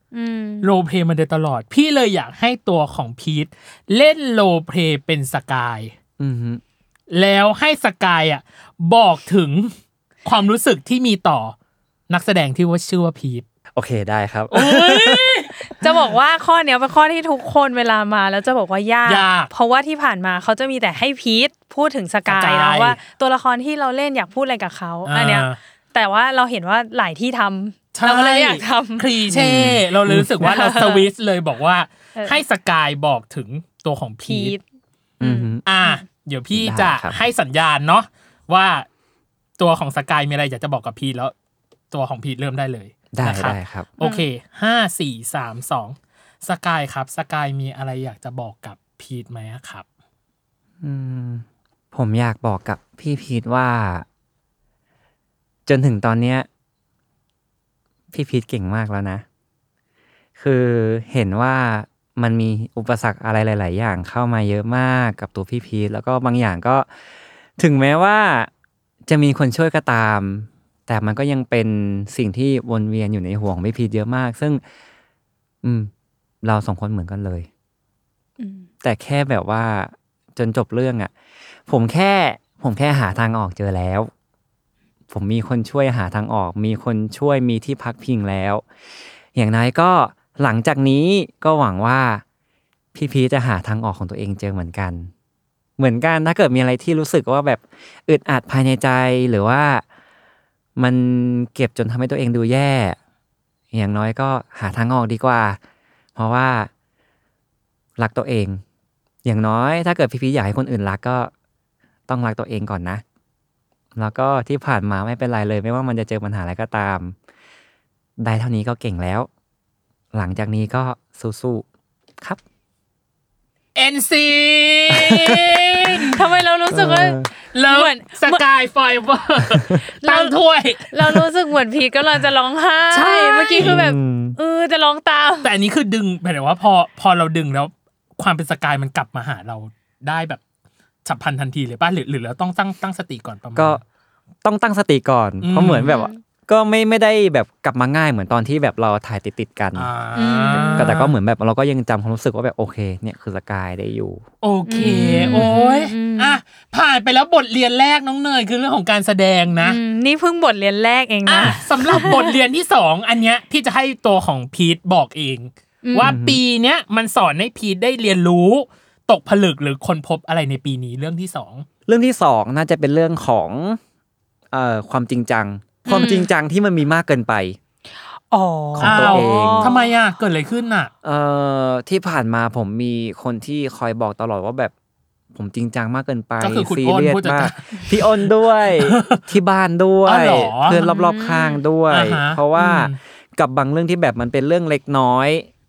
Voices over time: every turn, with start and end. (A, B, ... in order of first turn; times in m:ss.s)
0:00.1-0:00.7 A
0:00.6-0:05.9 B
0:06.2-0:06.6 C
0:07.1-0:09.7 B
0:10.2-0:11.5 B
0:12.1-0:13.4 B
0:13.7-0:15.3 C
0:14.5-0:15.5 B
0:15.6-0:29.1 A
0:19.0-0:19.5 B
0:22.2-0:23.0 B
0:25.0-0:25.6 B
0:27.9-0:34.5 B
0:29.3-0:30.3 C
0:30.4-0:31.1 A
0:32.2-0:32.4 A
0:34.2-0:34.6 A
0:35.2-0:35.6 C
0:35.2-0:36.0 A
0:35.6-0:38.8 B
0:36.5-0:37.2 C
0:39.6-0:41.3 B
0:41.9-0:49.8 B
0:43.1-0:43.9 C
0:50.8-0:54.0 C
0:55.6-0:56.5 C
0:58.1-0:59.2 C
1:00.4-1:06.9 C
1:07.6-1:08.5 C
1:09.1-1:14.6 C
1:15.6-1:15.9 C
1:16.4-1:17.5 C
1:18.4-1:18.7 A
1:18.8-1:21.1 C
1:21.7-1:24.1 C
1:25.1-1:28.6 C
1:29.3-1:32.2 C
1:32.9-1:35.1 C
1:35.8-1:39.8 C
1:40.8-1:43.0 C
1:43.7-1:45.6 C
1:46.2-1:46.7 C
1:48.0-1:48.6 C
1:49.2-1:51.3 C
1:52.1-1:53.0 C
1:53.9-1:57.1 C
1:58.2-1:59.3 C
2:00.1-2:01.6 C
2:03.8-2:06.2 B
2:04.9-2:06.1 C
2:06.1-2:08.4 A
2:06.7-2:07.3 C
2:07.5-2:11.2 B
2:10.0-2:10.4 A
2:10.9-2:15.5 A
2:12.9-2:14.4 C
2:13.4-2:13.8 B
2:15.4-2:20.4 B
2:21.0-2:23.8 B
2:23.5-2:23.8 C
2:24.4-2:29.9 C
2:25.4-2:26.0 B
2:25.9-2:26.2 A
2:29.7-2:31.1 B
2:30.2-2:31.0 A
2:30.5-2:34.2 C
2:34.4-2:39.8 B
2:34.7-2:36.4 A
2:34.8-2:35.5 C
2:39.6-2:42.3 A
2:41.2-2:51.6 B
2:45.8-2:46.2 A
2:46.0-2:46.4 C
2:51.9-2:53.8 C
2:54.5-2:57.6 C
2:55.8-2:56.2 B
2:55.9-2:56.3 A
2:58.3-2:59.9 A
2:58.7-2:59.7 C
2:58.8-3:00.9 B
3:01.0-3:04.7 C
3:05.3-3:15.5 C
3:06.4-3:09.2 B
3:10.0-3:10.8 B
3:10.7-3:11.6 A
3:11.9-3:13.0 B